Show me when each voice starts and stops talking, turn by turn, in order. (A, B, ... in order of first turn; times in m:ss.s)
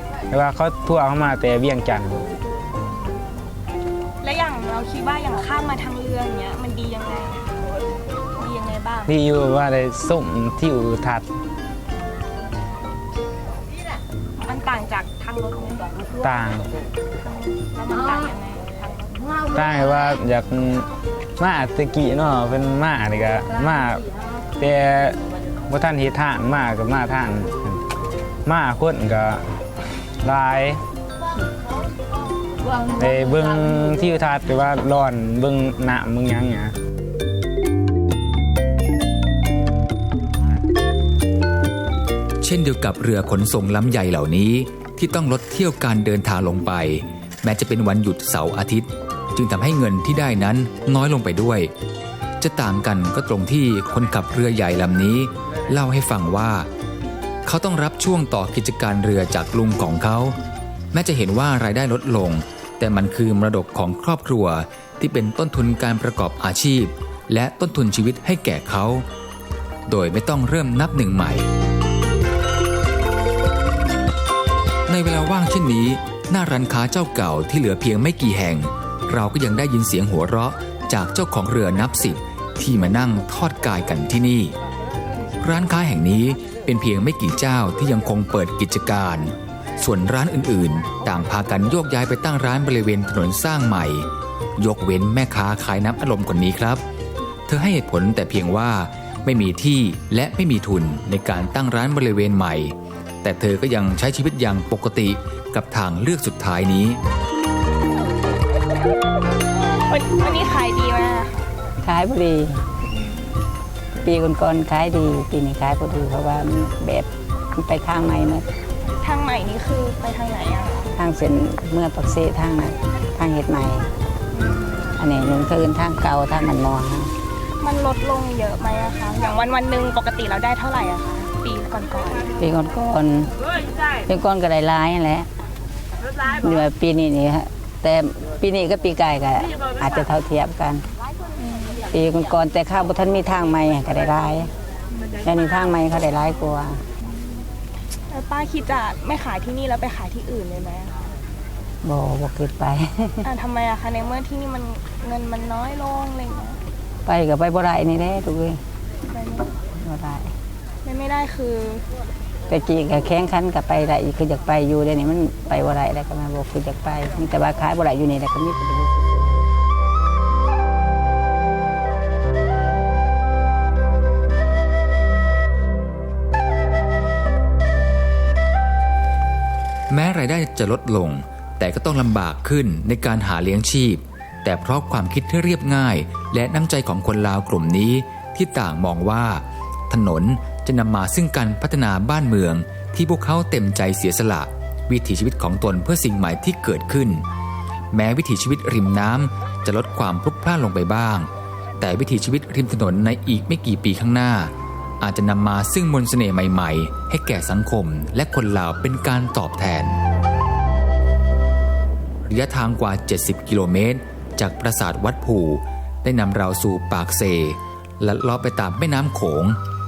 0:00.3-0:02.2 A
0:04.2-0:07.6 B
0:08.4-0:09.1 B
0:09.1-0:11.2 A
0:14.4-0:15.9 B
0:16.2-0:16.7 A
0:17.2-0:19.2 B
0:19.5-0:24.0 A
0:24.6-0:27.8 A
0:28.4-0:29.5 A
0:30.2-0:30.8 A
0:32.9-0:36.7 A
0:42.4-0:51.7 C
0:52.4-0:56.7 C
0:57.4-1:00.4 C
1:00.9-1:09.0 C
1:09.9-1:11.5 C
1:14.9-1:24.5 C
1:25.4-1:36.8 C
1:37.5-1:47.0 C
1:49.9-1:51.5 B
1:51.8-1:52.6 D
1:52.9-1:53.3 B
1:54.0-1:58.4 D
1:59.0-2:00.9 B
2:01.0-2:03.9 D
2:04.3-2:04.9 B
2:05.0-2:07.1 D
2:07.6-2:12.3 B
2:12.4-2:13.3 D
2:14.0-2:15.3 D
2:16.4-2:20.8 D
2:21.4-2:21.8 B
2:21.9-2:24.5 D
2:25.2-2:26.8 D
2:27.1-2:27.4 B
2:28.1-2:30.9 B
2:31.8-2:33.2 D
2:33.2-2:36.6 B
2:37.0-2:38.6 D
2:39.1-2:39.6 B
2:39.8-2:40.3 D
2:40.8-2:41.8 B
2:42.5-2:49.4 D
2:59.9-3:17.2 C
3:17.9-3:21.3 C
3:21.8-3:30.0 C
3:32.2-3:39.6 C